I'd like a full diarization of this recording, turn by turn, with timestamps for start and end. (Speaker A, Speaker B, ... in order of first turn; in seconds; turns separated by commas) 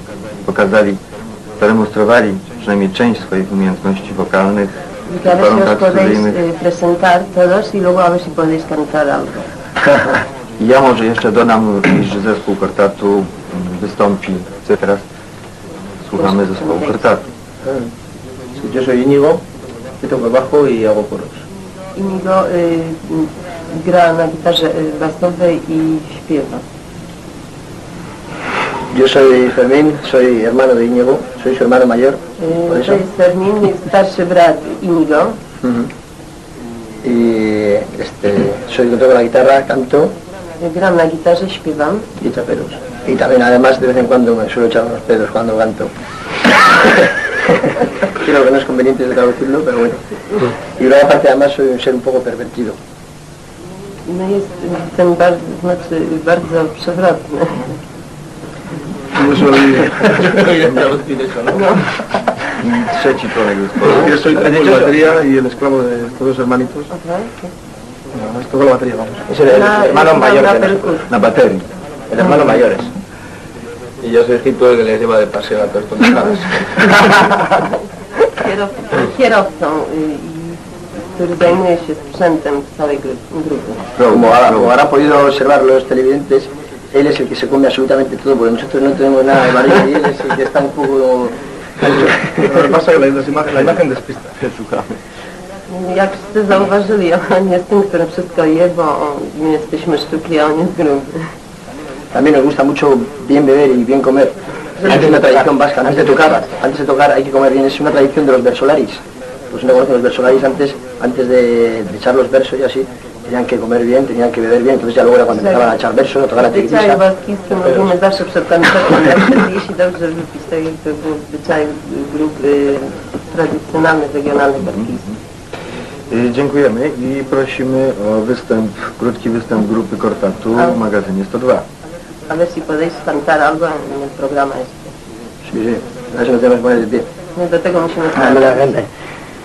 Speaker A: 0.4-1.0, Speaker A: 1.6-6.4, Speaker B: 5.1-9.5, Speaker A: 10.6-15.1, Speaker A: 16.0-17.2, Speaker B: 16.1-17.1, Speaker C: 18.6-19.4, Speaker C: 20.0-21.3, Speaker B: 21.9-26.6, Speaker C: 28.9-33.0, Speaker B: 32.4-35.4, Speaker C: 35.6-35.9, Speaker C: 37.0-40.1, Speaker B: 40.6-42.1, Speaker C: 42.2-45.9, Speaker C: 46.8-47.1, Speaker C: 48.1-52.8, Speaker B: 54.1-57.8, Speaker D: 59.1-61.5, Speaker C: 60.4-61.4, Speaker B: 61.5-62.0, Speaker A: 62.5-64.3, Speaker D: 63.9-66.8, Speaker C: 64.0-65.1, Speaker C: 66.3-66.9, Speaker B: 66.9-67.5, Speaker D: 68.1-69.4, Speaker C: 69.3-71.2, Speaker B: 69.5-71.1, Speaker A: 71.1-71.6, Speaker C: 72.1-72.9, Speaker D: 72.3-72.7, Speaker D: 74.0-77.0, Speaker C: 74.1-76.2, Speaker B: 77.0-83.8, Speaker A: 84.0-84.7, Speaker C: 84.1-92.6, Speaker D: 91.8-94.3, Speaker A: 94.4-95.0, Speaker B: 95.7-101.2, Speaker C: 102.1-109.0, Speaker D: 104.8-106.2, Speaker C: 109.5-117.0, Speaker B: 115.3-115.8, Speaker B: 116.4-125.0, Speaker A: 124.6-124.9, Speaker A: 126.1-131.6, Speaker B: 132.3-134.9, Speaker C: 135.4-137.1, Speaker B: 137.3-138.7, Speaker C: 138.1-138.9